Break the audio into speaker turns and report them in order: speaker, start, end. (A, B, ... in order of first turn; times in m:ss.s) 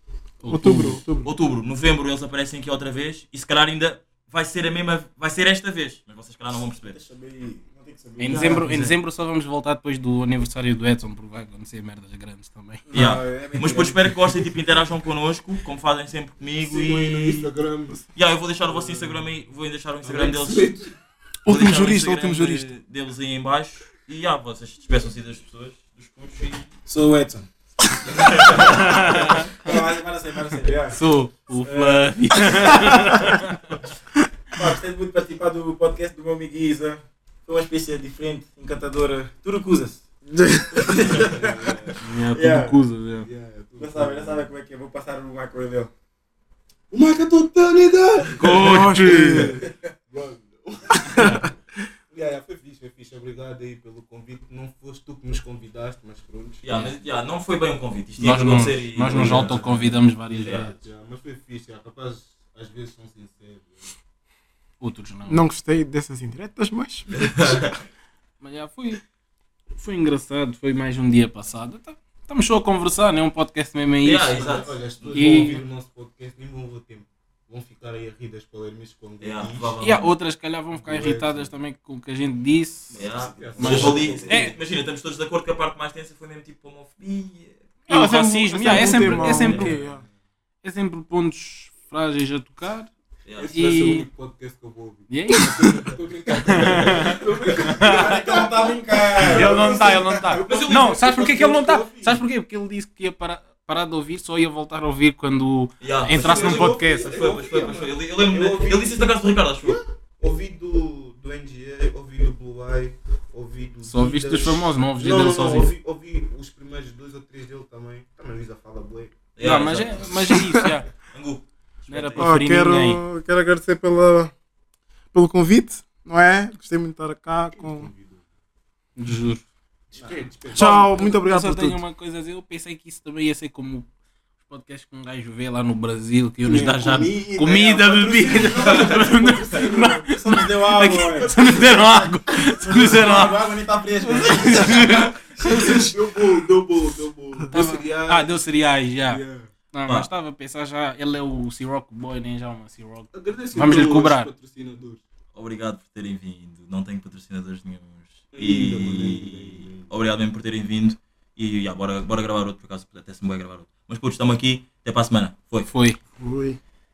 0:00.4-0:01.0 A
0:00.5-0:01.3 B
0:01.2-0:07.0 C
0:06.5-0:08.7 D
0:08.2-0:12.8 A
0:08.2-0:08.9 C
0:12.8-0:14.4 D
0:12.9-0:17.5 C
0:16.6-0:18.1 E
0:18.1-0:20.7 C
0:18.6-0:19.3 E
0:20.0-0:20.9 E
0:21.4-0:22.7 B
0:21.5-0:26.6 C
0:26.9-0:27.4 E
0:26.9-0:27.4 D
0:28.2-0:28.8 E
0:28.2-0:28.8 C
0:28.5-0:31.0 D
0:28.5-0:29.8 A
0:30.9-0:33.7 A
0:31.6-0:32.8 D
0:34.5-0:42.8 D
0:40.4-0:40.8 B
0:40.9-0:42.0 E
0:42.0-0:43.3 A
0:43.2-0:44.5 E
0:43.8-0:45.9 D
0:46.9-0:51.5 E
0:48.4-0:49.3 A
0:48.6-0:49.6 B
0:51.1-0:51.4 A
0:51.1-0:51.4 B
0:52.1-0:56.6 E
0:56.6-1:00.7 C
0:58.2-1:00.7 A
0:59.0-1:03.9 E
1:04.8-1:05.4 A
1:05.3-1:07.1 B
1:07.1-1:07.8 C
1:08.4-1:09.0 A
1:09.7-1:15.6 A
1:14.0-1:15.6 C
1:14.3-1:19.8 E
1:19.2-1:20.1 C
1:19.8-1:23.0 A
1:20.7-1:21.5 E
1:22.9-1:24.4 E
1:22.9-1:27.9 C
1:23.2-1:24.6 D
1:23.6-1:24.6 A
1:27.9-1:29.7 A
1:27.9-1:30.0 B
1:28.7-1:29.7 C
1:28.9-1:30.1 E
1:30.6-1:32.9 A
1:33.2-1:33.5 C
1:33.4-1:42.2 E
1:33.5-1:34.1 A
1:35.1-1:35.9 A
1:36.5-1:37.2 A
1:37.8-1:40.4 D
1:39.2-1:47.1 A
1:40.4-1:41.0 C
1:45.8-1:49.8 C
1:46.1-1:59.2 E
1:53.8-1:55.7 A
1:59.4-2:00.5 C
1:59.4-2:00.9 A
2:01.1-2:02.3 C
2:01.9-2:03.0 A
2:02.2-2:04.3 B
2:05.1-2:07.9 B
2:07.5-2:08.2 E
2:09.0-2:09.4 A
2:09.9-2:10.9 E
2:10.5-2:11.8 B
2:10.5-2:13.9 A
2:14.4-2:23.5 A
2:16.4-2:21.4 D
2:17.7-2:20.0 E
2:21.0-2:22.1 E
2:22.6-2:25.6 D
2:24.0-2:25.9 A
2:24.4-2:28.4 E
2:27.5-2:34.3 A
2:29.1-2:29.5 E
2:33.1-2:35.0 E
2:35.3-2:45.7 C
2:38.3-2:39.9 E
2:45.6-2:46.0 A
2:46.2-2:46.6 B